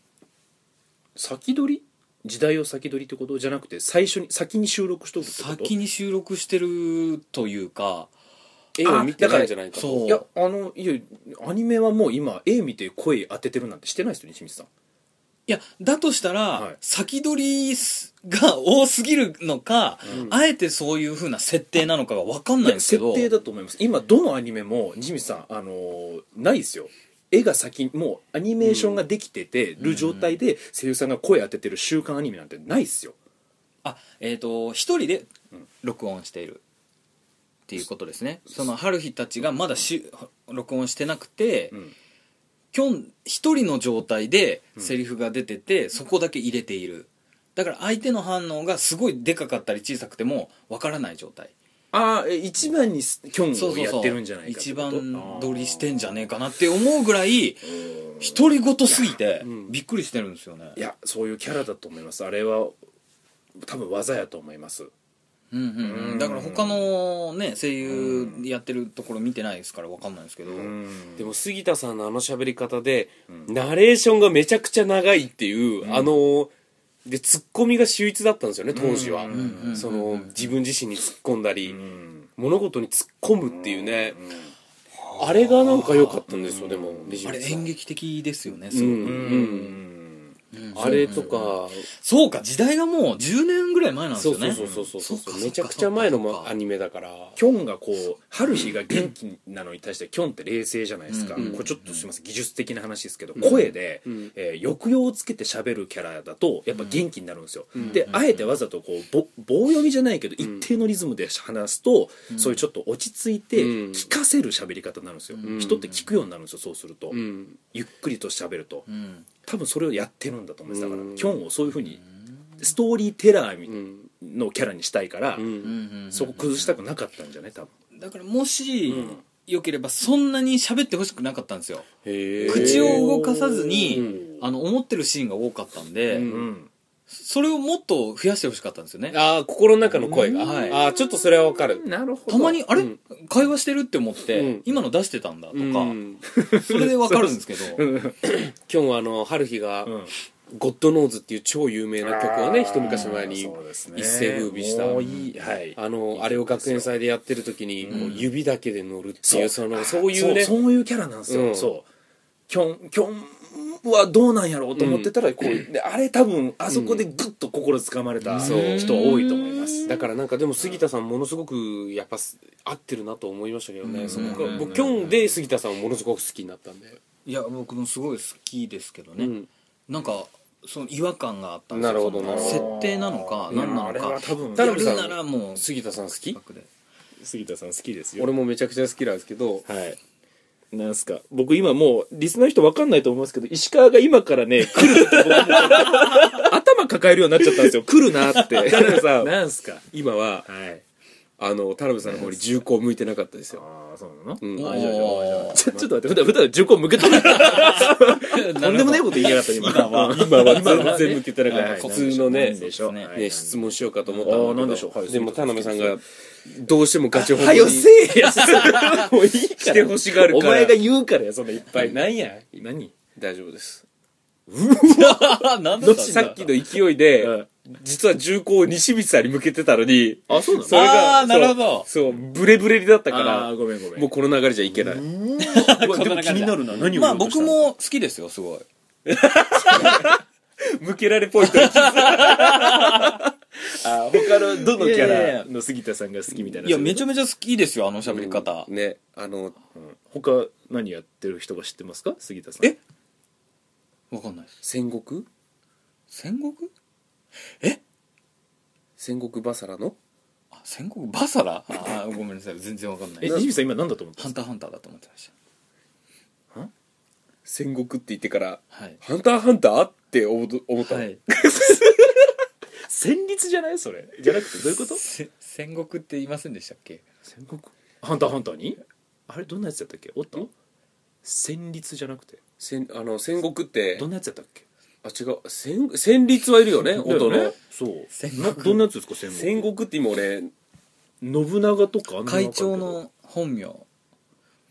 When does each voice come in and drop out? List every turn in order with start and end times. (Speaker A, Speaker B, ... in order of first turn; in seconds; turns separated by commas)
Speaker A: 1.2-5.7, Speaker B: 5.2-8.1, Speaker C: 8.8-10.2, Speaker A: 8.8-9.5, Speaker B: 9.7-10.2, Speaker A: 10.1-14.7, Speaker B: 15.5-23.3, Speaker A: 22.6-33.2, Speaker C: 28.6-29.0, Speaker B: 29.8-30.4, Speaker B: 33.8-35.3, Speaker B: 35.8-36.6, Speaker B: 37.7-41.8, Speaker B: 42.7-51.5, Speaker A: 51.9-56.1, Speaker B: 53.5-60.8, Speaker A: 57.8-58.4, Speaker C: 59.4-59.7, Speaker A: 60.8-62.8, Speaker A: 63.6-64.9, Speaker B: 65.5-70.7, Speaker A: 65.8-66.9, Speaker A: 67.8-68.5, Speaker A: 70.5-71.3, Speaker C: 71.2-76.5, Speaker A: 75.8-76.1, Speaker C: 77.0-81.8, Speaker A: 78.7-79.8, Speaker B: 79.3-80.4, Speaker A: 81.7-82.3, Speaker C: 82.4-84.2, Speaker A: 83.8-84.2, Speaker B: 85.1-86.2, Speaker C: 85.2-87.7, Speaker A: 86.3-87.2, Speaker B: 87.2-89.5, Speaker C: 88.7-89.8, Speaker A: 89.0-91.4, Speaker B: 90.5-96.5, Speaker C: 90.7-91.9, Speaker C: 94.2-97.4, Speaker A: 94.5-94.9, Speaker A: 97.4-118.8, Speaker B: 101.1-102.0, Speaker C: 101.4-101.6, Speaker C: 107.8-108.0, Speaker B: 107.8-108.4, Speaker B: 112.3-112.6, Speaker C: 113.6-114.1, Speaker B: 115.3-116.0, Speaker C: 115.4-115.9, Speaker C: 117.1-117.5, Speaker B: 118.9-119.2, Speaker A: 119.5-122.0, Speaker C: 120.7-121.4, Speaker A: 122.6-125.6, Speaker C: 125.4-125.7, Speaker B: 125.6-126.7, Speaker A: 126.1-127.7, Speaker B: 128.0-131.9, Speaker A: 128.9-129.2, Speaker C: 132.0-133.1, Speaker B: 132.4-136.3, Speaker A: 132.4-134.4, Speaker C: 133.9-134.2, Speaker C: 136.1-136.5, Speaker A: 136.2-136.7, Speaker B: 137.1-139.2, Speaker C: 139.1-141.8, Speaker A: 139.9-140.8, Speaker B: 140.4-140.8, Speaker A: 141.6-142.6, Speaker B: 142.3-146.0, Speaker C: 144.3-144.7, Speaker C: 145.5-146.2, Speaker A: 146.3-148.3, Speaker B: 146.5-147.9, Speaker C: 148.3-149.9, Speaker A: 149.8-150.1, Speaker C: 150.5-160.6, Speaker A: 152.0-156.9, Speaker A: 157.8-158.2, Speaker B: 157.9-158.2, Speaker A: 159.2-161.9, Speaker C: 161.3-161.7, Speaker A: 162.5-170.0, Speaker C: 164.8-165.6, Speaker C: 166.7-167.1, Speaker B: 168.2-169.9, Speaker C: 168.4-169.0, Speaker C: 169.9-177.0, Speaker B: 173.8-174.9, Speaker A: 174.1-175.1, Speaker B: 177.2-179.3, Speaker C: 179.2-179.5, Speaker B: 179.9-185.7, Speaker C: 181.7-182.7, Speaker A: 182.2-184.8, Speaker C: 183.5-186.4, Speaker B: 186.3-186.7, Speaker A: 187.2-188.3, Speaker C: 188.2-189.7, Speaker A: 189.7-190.0, Speaker A: 190.7-199.9, Speaker B: 195.8-196.4, Speaker C: 198.3-199.3, Speaker C: 199.9-200.5, Speaker A: 200.5-200.8, Speaker C: 201.4-203.6, Speaker A: 203.5-213.7, Speaker C: 204.4-205.9, Speaker B: 204.6-205.6, Speaker B: 207.0-213.2, Speaker C: 209.7-217.9, Speaker B: 214.1-214.5, Speaker A: 214.2-216.0, Speaker A: 217.1-222.9, Speaker B: 218.3-219.1, Speaker C: 218.4-218.9, Speaker C: 219.6-220.8, Speaker C: 221.7-222.0, Speaker C: 223.2-223.8, Speaker A: 224.5-226.3, Speaker B: 224.9-226.5, Speaker C: 225.9-235.1, Speaker A: 227.2-227.5, Speaker A: 230.3-230.9, Speaker B: 230.7-231.9, Speaker A: 233.1-234.1, Speaker A: 234.7-237.7, Speaker B: 235.4-238.7, Speaker C: 239.1-240.1, Speaker B: 239.7-240.1, Speaker C: 240.8-243.3, Speaker B: 241.4-243.2, Speaker A: 243.7-247.0, Speaker B: 244.7-245.5, Speaker B: 246.6-248.7, Speaker C: 248.1-249.6, Speaker A: 249.8-252.8, Speaker B: 254.1-254.6, Speaker C: 254.6-255.3, Speaker B: 256.1-256.7, Speaker C: 259.0-260.0, Speaker B: 260.5-263.5, Speaker C: 263.2-263.5, Speaker A: 263.2-264.4, Speaker B: 264.2-265.3, Speaker C: 267.5-272.3, Speaker B: 268.7-269.0, Speaker B: 270.8-271.2, Speaker A: 272.9-275.0, Speaker B: 274.8-277.0, Speaker A: 277.3-280.5, Speaker A: 281.2-282.4, Speaker C: 282.6-284.1, Speaker A: 283.9-284.6, Speaker C: 285.0-287.6, Speaker A: 286.9-289.7, Speaker B: 288.1-288.8, Speaker C: 289.3-290.5, Speaker A: 291.2-293.0, Speaker B: 292.2-293.9